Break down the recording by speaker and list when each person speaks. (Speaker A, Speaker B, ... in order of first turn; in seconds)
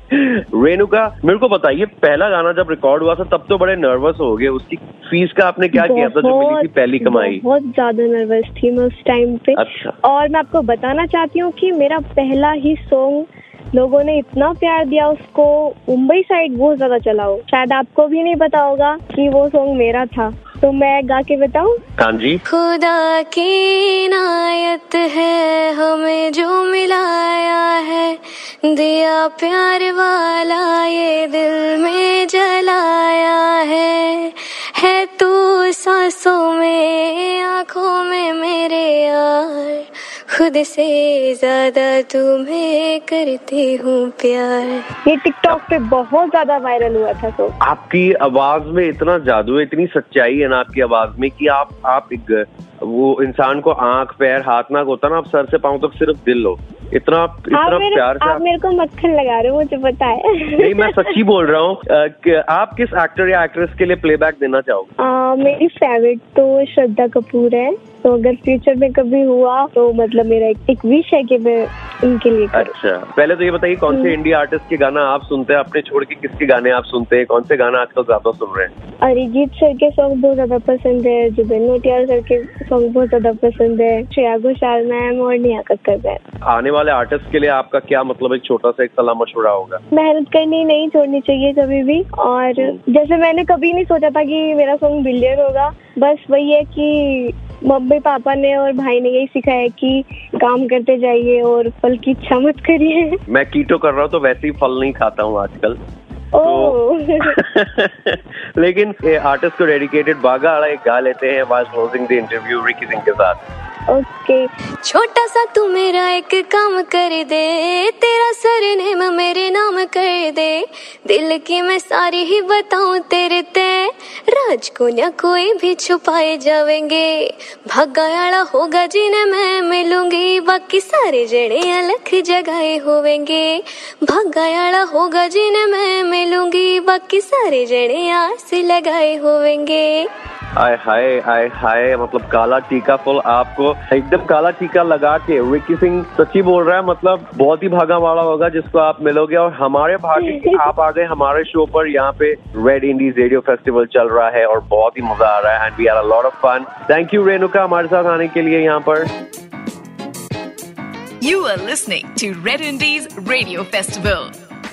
Speaker A: 0.1-7.4, 9.6-9.9, 22.0-22.4, 47.6-58.4, 60.6-64.9, 72.5-78.7, 86.5-89.8, 103.3-105.8, 106.4-113.4, 140.6-159.1
Speaker B: 5.8-21.8, 45.0-47.6, 57.5-61.2, 65.0-72.7, 79.0-86.2, 89.9-103.2, 106.3-107.4, 113.9-114.4, 150.2-150.7
Speaker C: 22.5-44.9, 114.8-140.1
Speaker D: 161.2-164.3